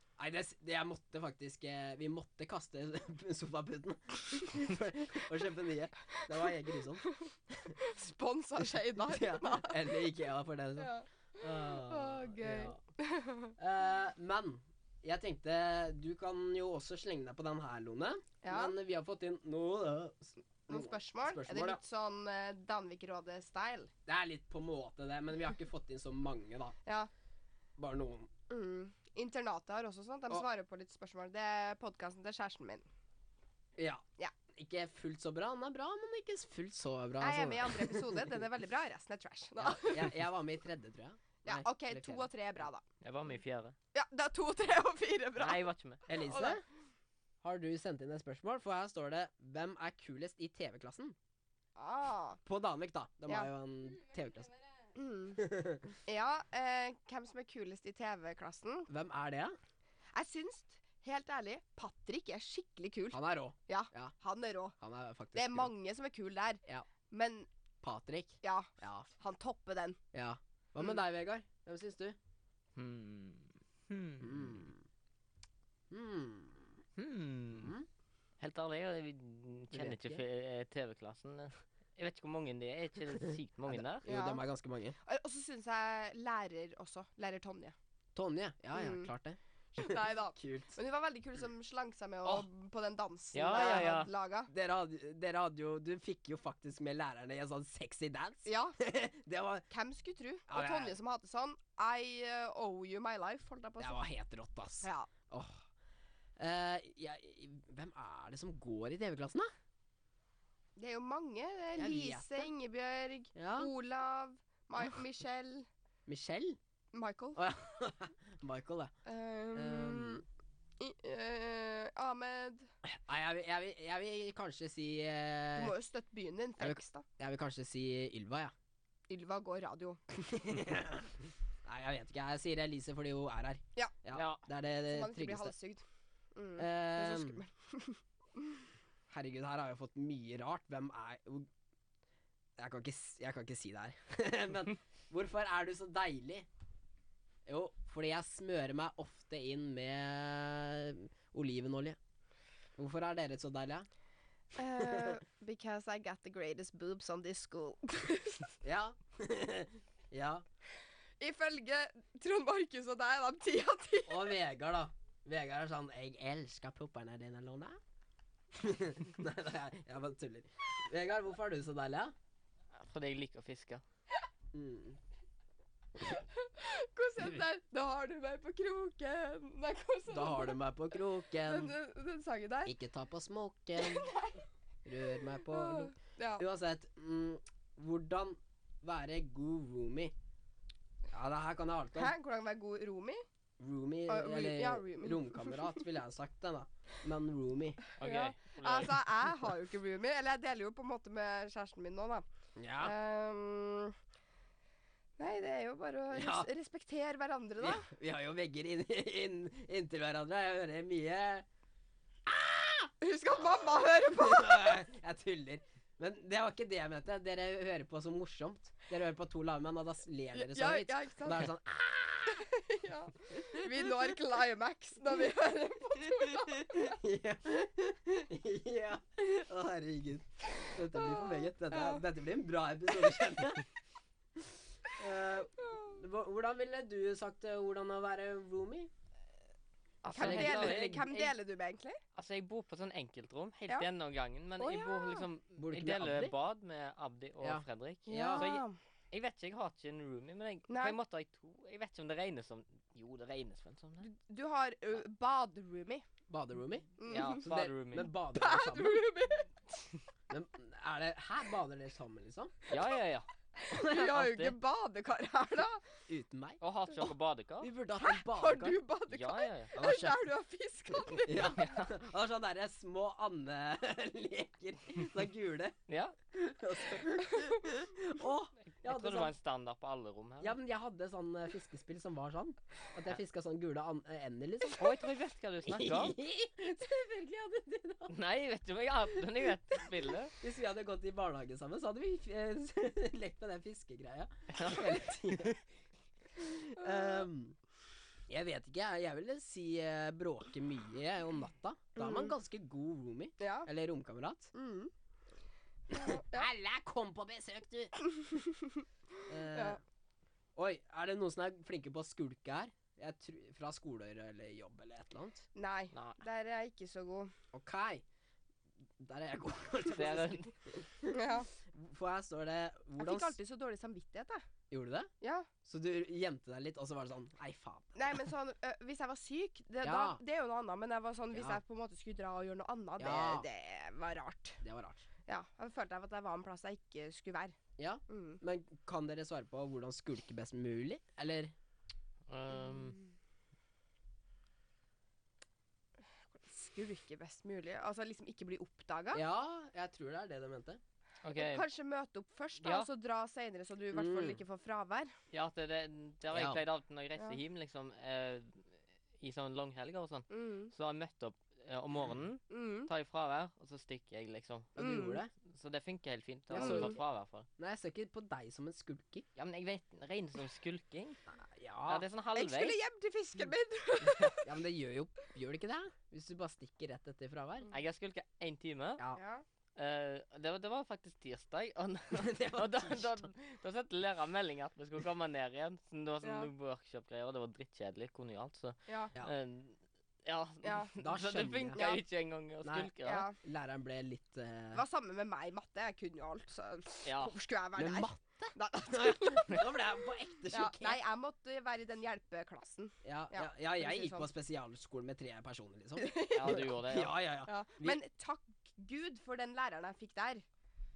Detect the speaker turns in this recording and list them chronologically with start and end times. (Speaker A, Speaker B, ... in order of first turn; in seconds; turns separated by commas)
Speaker A: 0.2-7.8, Speaker B: 7.0-9.9, Speaker A: 8.9-12.8, Speaker B: 10.8-13.5, Speaker A: 13.6-21.8, Speaker B: 18.4-18.7, Speaker B: 20.7-23.9, Speaker A: 24.1-26.7, Speaker B: 26.8-27.1, Speaker A: 27.8-28.3, Speaker B: 28.5-32.9, Speaker A: 33.8-38.4, Speaker B: 37.2-40.2, Speaker A: 39.6-42.3, Speaker B: 41.4-42.8, Speaker C: 43.0-43.8, Speaker B: 43.9-46.6, Speaker C: 45.4-46.0, Speaker A: 46.1-46.6, Speaker A: 47.4-51.1, Speaker B: 51.8-52.4, Speaker A: 52.5-54.5, Speaker B: 54.9-55.4, Speaker A: 55.4-55.9, Speaker B: 56.0-58.9, Speaker A: 58.9-59.6, Speaker B: 60.1-64.8, Speaker A: 63.1-64.1, Speaker A: 64.8-65.7, Speaker B: 65.3-67.5, Speaker A: 67.8-69.1, Speaker B: 68.4-70.0, Speaker A: 70.1-72.2, Speaker C: 72.8-74.7, Speaker A: 74.2-74.8, Speaker A: 75.9-76.8, Speaker C: 77.0-77.7, Speaker A: 77.5-77.8, Speaker C: 78.4-84.0, Speaker A: 79.7-80.2, Speaker A: 83.7-85.0, Speaker B: 84.0-84.4, Speaker B: 85.0-87.7, Speaker A: 88.1-90.8, Speaker B: 88.7-89.1, Speaker B: 89.7-94.5, Speaker C: 93.3-94.1, Speaker A: 93.5-93.9, Speaker A: 94.5-99.7, Speaker B: 98.4-98.8, Speaker B: 99.7-104.0, Speaker A: 100.5-101.0, Speaker A: 103.8-105.7, Speaker B: 104.8-105.1, Speaker A: 106.4-109.5, Speaker B: 110.8-115.7, Speaker A: 111.8-112.5, Speaker A: 113.3-113.7, Speaker A: 116.1-116.6, Speaker B: 116.9-117.4, Speaker A: 117.3-118.9, Speaker B: 119.0-120.2, Speaker A: 119.5-120.2, Speaker B: 120.8-122.7, Speaker A: 122.8-125.7, Speaker B: 125.5-127.0, Speaker A: 126.6-128.5, Speaker B: 129.1-130.0, Speaker A: 130.1-135.5, Speaker C: 134.1-134.4, Speaker B: 134.8-135.8, Speaker B: 136.3-138.0, Speaker A: 136.6-137.4, Speaker A: 139.1-141.5, Speaker A: 142.6-146.5, Speaker A: 147.5-152.0, Speaker A: 152.8-153.9, Speaker B: 154.5-158.6, Speaker A: 154.8-155.2, Speaker A: 158.6-160.4, Speaker B: 161.2-164.3, Speaker A: 164.1-167.8, Speaker A: 168.5-172.1, Speaker C: 172.7-173.8, Speaker A: 174.5-175.0, Speaker B: 176.0-180.6, Speaker A: 180.1-181.7, Speaker B: 181.4-182.7, Speaker A: 182.6-184.1, Speaker B: 183.8-184.4, Speaker A: 184.8-190.1, Speaker B: 185.4-186.4, Speaker A: 191.1-192.1, Speaker B: 191.9-193.2, Speaker A: 193.6-197.8, Speaker B: 194.1-195.8, Speaker C: 198.0-199.1, Speaker B: 198.0-202.2, Speaker A: 202.6-202.9, Speaker B: 202.8-203.9, Speaker B: 205.2-207.9, Speaker A: 206.1-206.5, Speaker A: 207.6-211.4, Speaker A: 212.2-222.4, Speaker B: 213.0-214.8, Speaker B: 220.3-221.5, Speaker B: 222.3-226.9, Speaker A: 226.0-233.7, Speaker B: 230.9-232.0, Speaker A: 234.3-238.9, Speaker C: 240.0-241.3, Speaker B: 240.1-242.0, Speaker A: 240.1-241.1, Speaker C: 242.1-254.1, Speaker B: 244.6-245.2, Speaker A: 245.6-246.3, Speaker A: 247.4-248.5, Speaker B: 248.1-248.8, Speaker B: 250.7-251.0, Speaker B: 254.0-256.0, Speaker A: 256.3-259.2, Speaker B: 257.0-257.4, Speaker C: 257.1-258.1, Speaker B: 258.3-259.9, Speaker A: 260.3-262.5, Speaker C: 262.7-264.6, Speaker B: 263.6-265.9, Speaker A: 266.1-266.6, Speaker C: 266.6-267.7, Speaker A: 267.6-268.8, Speaker B: 268.0-271.6, Speaker C: 269.1-269.7, Speaker A: 269.7-270.2, Speaker A: 271.1-275.8, Speaker C: 271.6-271.9, Speaker C: 275.9-276.1, Speaker A: 276.3-279.3, Speaker C: 278.7-280.6, Speaker A: 280.4-285.0, Speaker C: 284.8-286.1, Speaker A: 285.6-288.1, Speaker C: 288.1-290.4, Speaker A: 290.4-295.6, Speaker C: 294.5-295.6, Speaker A: 296.3-297.6, Speaker B: 296.8-297.2, Speaker A: 298.3-304.5, Speaker B: 301.9-302.3, Speaker B: 303.4-303.7, Speaker B: 304.5-304.9, Speaker A: 305.9-307.9, Speaker B: 305.9-306.5, Speaker B: 308.2-308.8, Speaker A: 309.3-309.8, Speaker B: 309.5-309.8, Speaker A: 310.6-315.5, Speaker B: 315.5-317.3, Speaker C: 315.9-316.2, Speaker A: 317.5-318.0, Speaker A: 319.0-323.4, Speaker C: 319.9-320.5, Speaker B: 321.1-321.5, Speaker B: 323.0-324.4, Speaker A: 324.7-325.1, Speaker B: 325.2-325.5, Speaker A: 325.6-328.2, Speaker B: 327.9-334.6, Speaker A: 329.8-330.2, Speaker A: 331.3-331.6, Speaker A: 333.0-333.5, Speaker A: 334.6-335.1, Speaker B: 335.2-337.6, Speaker A: 337.8-341.5, Speaker B: 338.1-338.4, Speaker C: 342.3-343.0, Speaker B: 346.3-349.2, Speaker A: 349.1-350.8, Speaker C: 351.2-351.6, Speaker B: 351.3-355.1, Speaker C: 352.6-352.9, Speaker A: 353.9-354.4, Speaker C: 355.3-364.7, Speaker A: 356.3-356.6, Speaker B: 360.3-360.7, Speaker B: 362.5-362.9, Speaker A: 364.8-365.3, Speaker B: 364.8-365.2, Speaker C: 365.4-367.5, Speaker A: 366.5-367.0, Speaker B: 366.5-366.9, Speaker A: 367.6-369.2, Speaker C: 369.4-371.2, Speaker A: 371.3-372.0, Speaker C: 371.9-372.8, Speaker B: 372.3-374.6, Speaker A: 374.0-377.7, Speaker C: 377.7-379.0, Speaker B: 379.1-379.4, Speaker C: 379.8-393.3, Speaker A: 382.1-383.2, Speaker B: 386.2-386.5, Speaker B: 388.9-389.1, Speaker B: 390.6-390.9, Speaker A: 391.0-391.8, Speaker B: 391.7-392.0, Speaker A: 392.6-394.8, Speaker B: 393.0-393.4, Speaker B: 394.7-399.6, Speaker C: 397.1-397.4, Speaker A: 397.8-401.0, Speaker B: 400.5-404.3, Speaker A: 403.0-408.0, Speaker B: 406.0-406.8, Speaker C: 406.3-407.1, Speaker B: 407.4-410.4